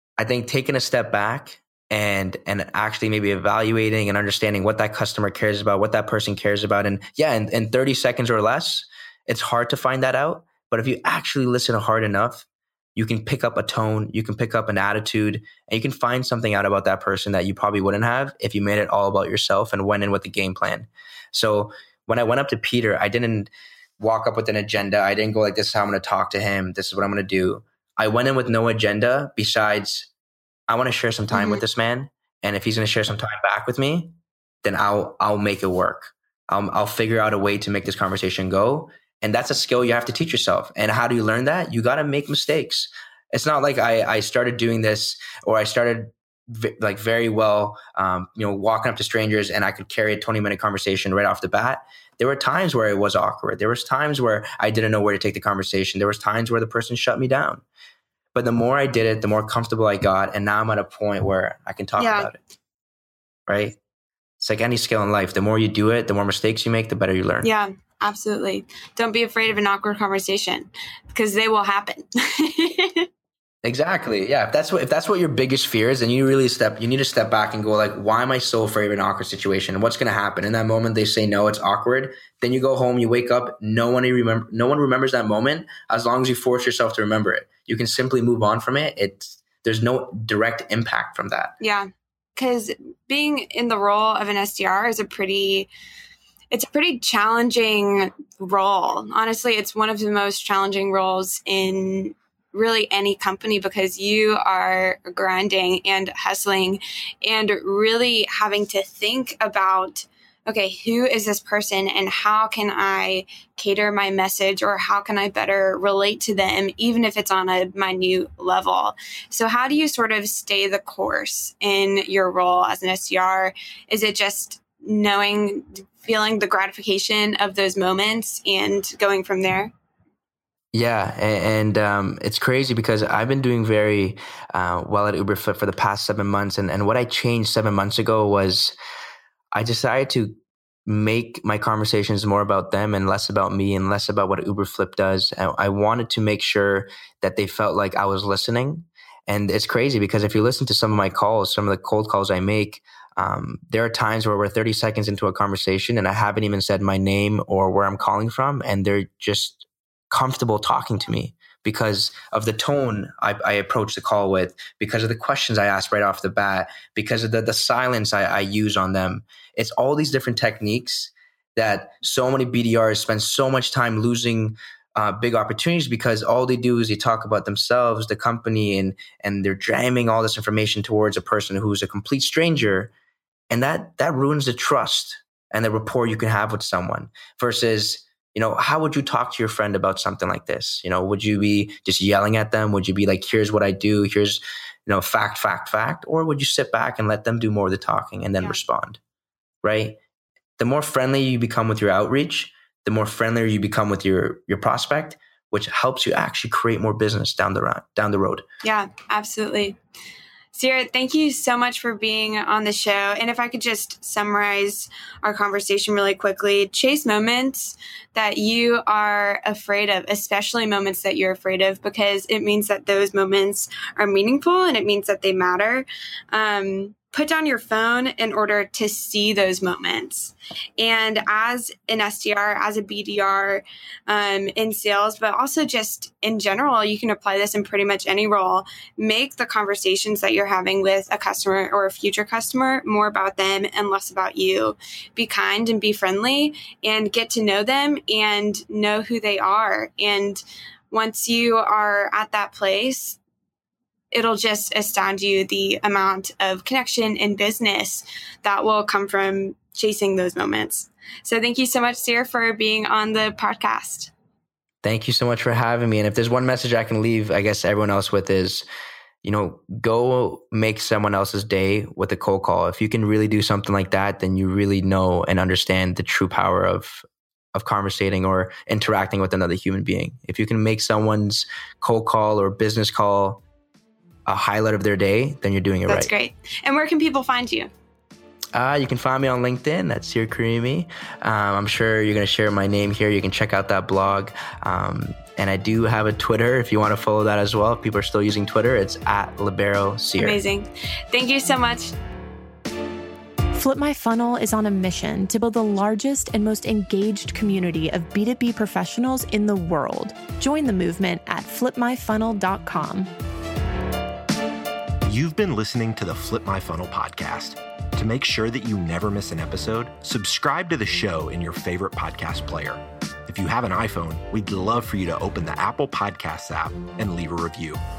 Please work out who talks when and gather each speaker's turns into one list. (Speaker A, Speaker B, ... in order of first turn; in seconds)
Speaker A: 0.2-30.1, 30.7-57.6, 58.4-62.4, 63.5-63.8, 64.4-67.5, 73.6-91.5, 130.7-138.8, 139.5-140.3, 140.9-182.9, 183.5-199.0, 199.6-200.0, 200.6-208.4, 264.8-268.7, 269.2-283.4, 284.3-286.1, 288.5-300.4
Speaker B: 31.3-31.6, 62.0-62.3, 67.4-73.1, 91.6-95.7, 96.5-129.7, 208.6-209.8, 210.5-253.2, 254.1-264.1, 285.9-287.7, 300.2-301.9
Speaker C: 303.5-313.1
Speaker D: 315.1-327.8